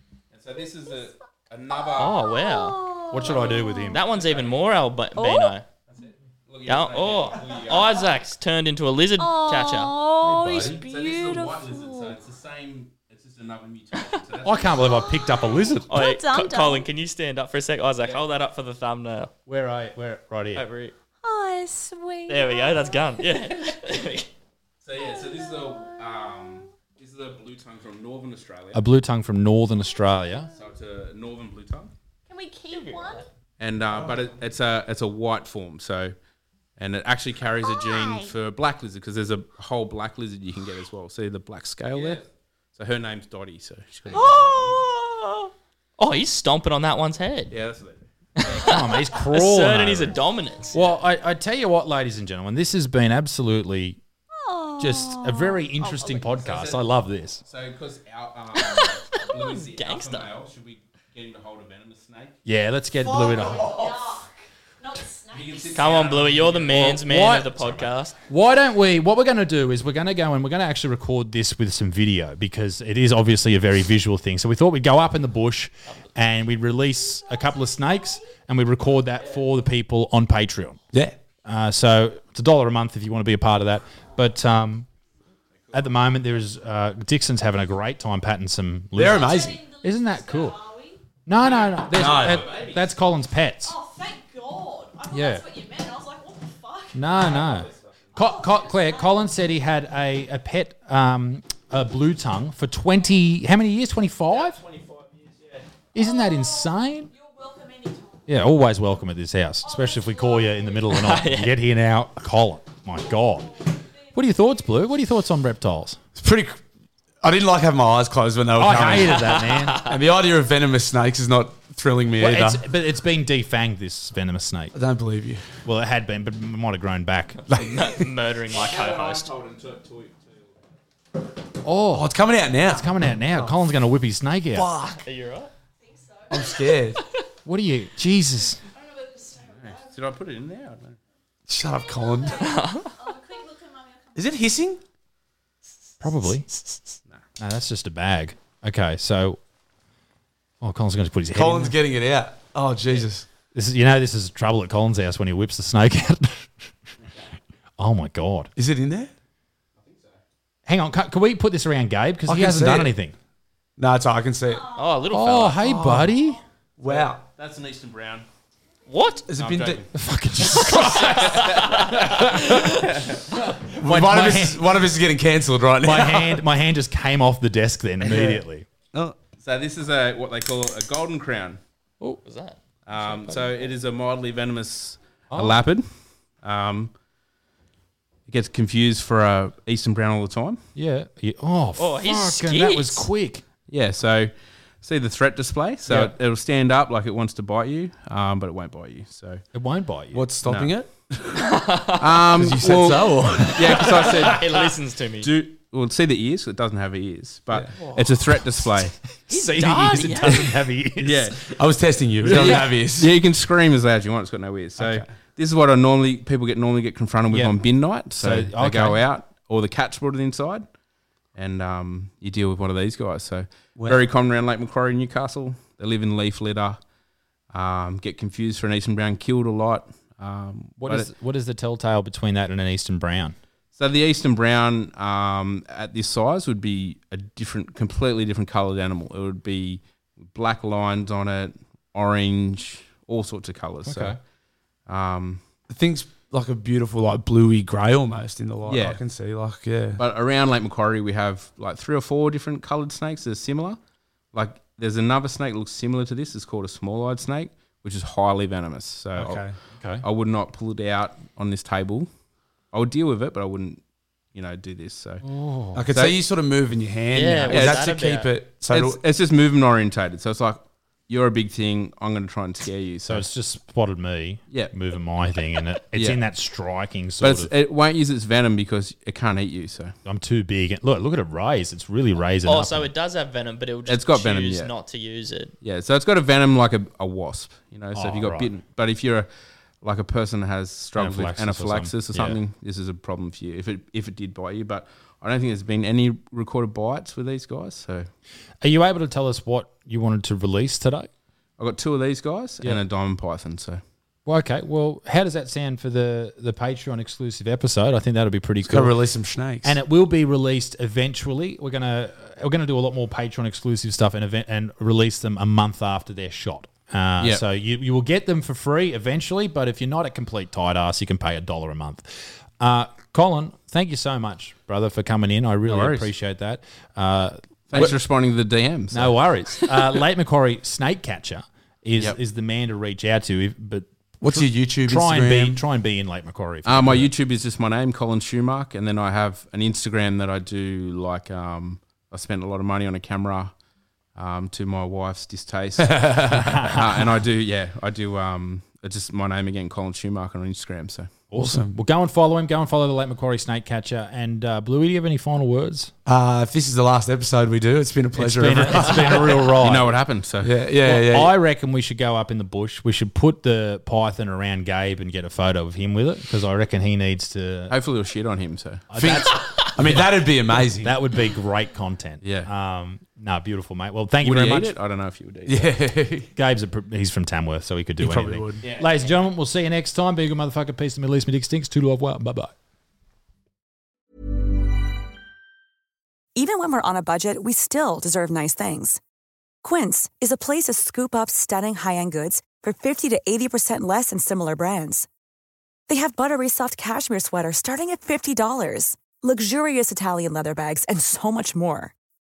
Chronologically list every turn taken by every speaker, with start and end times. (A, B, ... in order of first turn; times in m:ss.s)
0:00.3-0:02.3 A
0:01.7-0:04.0 B
0:02.0-0:03.0 C
0:03.1-0:04.0 D
0:03.2-0:04.8 A
0:03.9-0:05.6 C
0:05.2-0:05.6 B
0:05.9-0:08.1 A
0:06.7-0:10.0 C
0:07.4-0:08.0 B
0:09.2-0:12.2 B
0:10.2-0:10.8 D
0:10.4-0:15.8 A
0:14.4-0:16.0 D
0:14.6-0:16.9 B
0:15.9-0:19.3 C
0:19.5-0:20.6 D
0:20.5-0:20.9 C
0:21.2-0:23.8 B
0:22.3-0:24.3 C
0:24.8-0:28.8 A
0:24.9-0:26.7 B
0:28.7-0:30.5 D
0:30.5-0:31.9 A
0:32.3-0:33.3 B
0:32.7-0:33.1 C
0:33.6-0:36.2 A
0:36.8-0:44.8 A
0:37.6-0:38.3 B
0:44.1-0:45.5 B
0:46.0-0:47.5 C
0:47.5-0:48.8 A
0:48.4-0:50.8 C
0:48.5-0:50.2 D
0:50.7-0:54.0 D
0:54.3-0:56.5 B
0:54.8-0:57.4 D
0:56.0-0:56.9 A
0:57.4-1:02.4 A
0:58.6-0:59.0 B
0:59.4-1:00.3 C
1:02.5-1:03.8 D
1:03.1-1:06.1 B
1:03.5-1:04.0 A
1:05.3-1:07.0 A
1:05.7-1:08.2 C
1:06.7-1:20.8 D
1:17.1-1:18.2 B
1:20.9-1:21.2 E
1:21.5-1:24.9 D
1:25.7-1:25.9 A
1:25.7-1:30.6 D
1:28.9-1:29.6 E
1:29.0-1:31.0 B
1:31.3-1:33.8 D
1:31.4-1:32.9 A
1:31.9-1:32.5 E
1:33.6-1:37.6 B
1:35.1-1:35.4 D
1:36.9-1:44.6 D
1:37.1-1:38.0 A
1:38.2-1:39.3 B
1:44.3-1:45.7 A
1:45.9-1:47.1 D
1:46.0-1:48.3 B
1:48.3-1:53.6 D
1:49.6-1:51.0 B
1:50.9-1:51.6 C
1:53.1-1:54.6 B
1:54.1-1:56.0 D
1:56.2-1:56.6 E
1:57.2-2:02.6 E
1:58.6-1:59.8 D
1:59.1-1:59.9 C
2:02.2-2:04.7 D
2:04.7-2:05.5 E
2:05.6-2:07.4 D
2:07.5-2:08.1 E
2:07.6-2:09.3 C
2:08.5-2:10.7 A
2:11.6-2:14.7 D
2:11.9-2:13.6 E
2:14.6-2:15.0 E
2:14.7-2:15.5 C
2:15.8-2:16.9 B
2:16.3-2:17.0 E
2:17.4-2:18.6 D
2:18.6-2:20.0 B
2:19.4-2:21.0 A
2:21.5-2:22.5 E
2:21.6-2:24.6 B
2:22.4-2:22.9 C
2:24.2-2:24.8 E
2:26.0-2:26.5 D
2:27.4-2:29.4 D
2:30.6-2:31.8 D
2:31.3-2:33.3 E
2:33.5-2:36.7 D
2:37.8-2:38.5 D
2:38.6-2:39.1 E
2:39.8-2:40.2 A
2:40.7-2:43.1 D
2:42.3-2:43.0 E
2:43.8-2:44.7 E
2:44.5-2:45.1 B
2:44.7-2:45.8 C
2:45.1-2:46.4 D
2:45.6-2:46.2 E
2:46.8-2:47.2 E
2:46.8-2:48.3 A
2:48.9-2:49.3 C
2:49.3-2:49.9 E
2:49.3-2:49.9 A
2:49.9-2:52.8 D
2:50.6-2:52.7 C
2:50.8-2:53.2 A
2:53.3-2:54.6 D
2:53.7-2:56.5 E
2:55.8-2:58.7 D
2:58.0-2:59.2 E
2:59.4-3:01.6 A
3:02.2-3:02.6 C
3:02.9-3:05.9 A
3:03.0-3:03.5 D
3:05.3-3:05.6 D
3:06.4-3:06.9 A
3:08.3-3:10.6 A
3:10.8-3:13.4 D
3:11.8-3:13.1 C
3:13.7-3:19.4 A
3:19.5-3:20.3 D
3:20.1-3:21.6 E
3:20.4-3:20.7 A
3:21.4-3:22.3 C
3:22.0-3:24.6 A
3:22.3-3:24.4 E
3:24.1-3:25.3 C
3:25.2-3:29.0 A
3:29.3-3:31.4 D
3:29.3-3:30.7 C
3:30.9-3:31.5 A
3:31.6-3:33.2 E
3:32.2-3:40.7 A
3:32.3-3:32.6 D
3:34.8-3:35.1 E
3:37.3-3:37.6 D
3:38.2-3:39.0 D
3:41.4-3:46.8 A
3:43.8-3:44.0 E
3:47.5-3:51.1 A
3:50.8-3:53.4 D
3:53.8-4:04.2 A
4:03.9-4:04.2 D
4:04.9-4:05.4 A
4:05.7-4:10.0 E
4:08.7-4:09.0 A
4:10.0-4:13.8 A
4:14.3-4:22.1 A
4:19.2-4:19.6 E
4:19.8-4:20.0 D
4:22.7-4:23.8 A
4:24.3-4:25.2 A
4:25.2-4:25.8 D
4:25.7-4:29.0 E
4:27.1-4:28.3 C
4:27.5-4:27.9 A
4:28.7-4:33.2 A
4:33.1-4:37.5 D
4:35.9-4:36.2 A
4:37.2-4:40.0 A
4:40.0-4:42.9 D
4:42.4-4:45.5 C
4:43.9-4:44.7 A
4:45.6-4:49.3 A
4:47.9-4:48.5 D
4:49.8-4:58.1 A
4:51.0-4:52.4 D
4:58.6-5:01.1 D
5:01.6-5:03.8 A
5:04.3-5:09.0 D
5:08.6-5:09.8 E
5:09.6-5:27.9 D
5:25.7-5:26.1 A
5:27.7-5:29.2 A
5:28.9-5:37.1 D
5:34.2-5:35.6 E
5:36.6-5:43.5 A
5:44.2-5:51.2 A
5:45.8-5:46.4 E
5:46.3-5:47.0 D
5:51.3-5:55.9 D
5:51.4-5:51.7 E
5:56.1-5:59.6 E
5:58.2-5:59.9 D
5:59.6-6:00.6 A
6:00.4-6:01.4 E
6:00.8-6:07.8 D
6:07.7-6:08.9 A
6:08.9-6:14.7 D
6:09.0-6:11.0 E
6:12.2-6:12.5 A
6:14.2-6:15.8 A
6:15.5-6:16.3 E
6:16.4-6:22.5 D
6:18.0-6:18.6 E
6:18.6-6:19.1 A
6:26.4-6:29.0 F
6:29.6-6:35.1 F
6:35.9-6:41.9 F